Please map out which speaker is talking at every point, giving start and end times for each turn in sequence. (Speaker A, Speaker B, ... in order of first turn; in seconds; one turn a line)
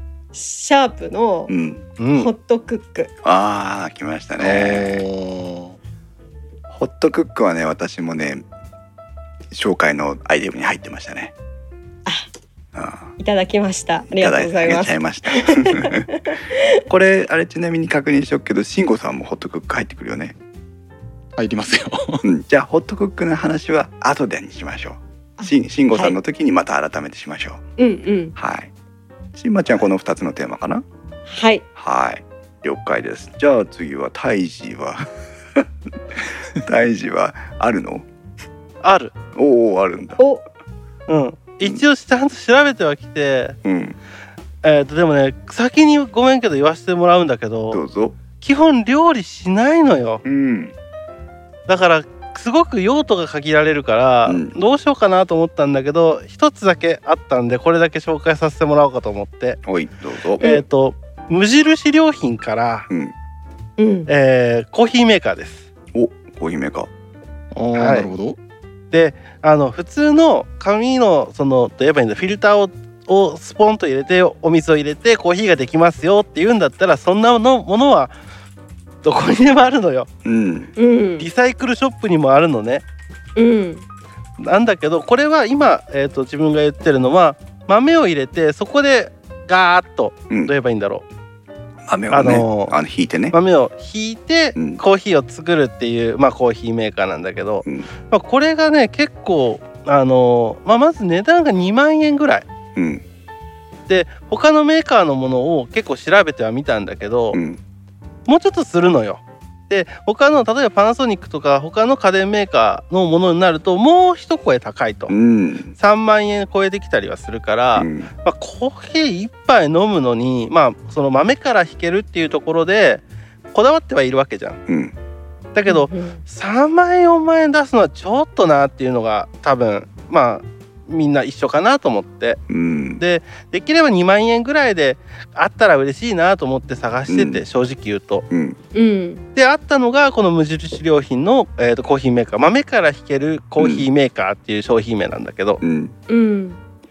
Speaker A: 0.3-1.5
Speaker B: 1.5-1.9
Speaker C: 2.0-2.3
Speaker A: 2.1-3.1
Speaker B: 3.2-5.1
Speaker D: 4.4-5.8
Speaker B: 6.7-8.4
Speaker B: 9.5-11.3
Speaker B: 12.7-13.1
Speaker A: 13.2-16.7
Speaker B: 14.1-16.1
Speaker B: 16.9-20.4
Speaker D: 21.4-22.3
Speaker B: 22.2-27.6
Speaker A: 25.4-26.2
Speaker A: 27.8-28.4
Speaker B: 28.4-28.7
Speaker B: 29.4-30.8
Speaker A: 31.3-31.6
Speaker B: 31.8-35.7
Speaker B: 36.2-38.1
Speaker C: 38.8-39.1
Speaker B: 39.4-40.2
Speaker C: 41.1-43.6
Speaker B: 43.6-44.0
Speaker C: 44.6-47.8
Speaker B: 47.7-48.2
Speaker C: 48.4-50.2
Speaker B: 50.2-50.7
Speaker C: 51.7-59.6
Speaker B: 54.3-54.5
Speaker B: 59.6-60.5
Speaker C: 60.4-62.9
Speaker B: 62.9-63.1
Speaker A: 63.8-64.1
Speaker C: 64.1-65.7
Speaker B: 65.9-66.9
Speaker D: 67.5-68.4
Speaker C: 67.8-68.1
Speaker C: 68.9-78.1
Speaker C: 79.0-80.1
Speaker B: 80.2-80.7
Speaker A: 80.8-81.3
Speaker C: 81.2-82.8
Speaker A: 83.4-83.8
Speaker C: 84.4-91.0
Speaker B: 91.9-93.4
Speaker C: 92.1-92.8
Speaker C: 93.3-102.5
Speaker B: 94.6-94.8
Speaker B: 102.8-103.0
Speaker C: 103.9-107.4
Speaker B: 107.3-107.6
Speaker C: 108.3-115.2
Speaker B: 115.1-115.7
Speaker C: 115.8-124.6
Speaker B: 117.8-118.1
Speaker B: 124.7-125.0
Speaker C: 125.5-132.4
Speaker A: 125.7-126.2
Speaker B: 132.5-133.0
Speaker C: 133.0-138.3
Speaker B: 137.1-137.4
Speaker B: 138.3-138.6
Speaker A: 138.7-139.2
Speaker C: 139.4-145.6
Speaker B: 143.6-143.9
Speaker B: 145.6-146.0
Speaker A: 146.1-146.6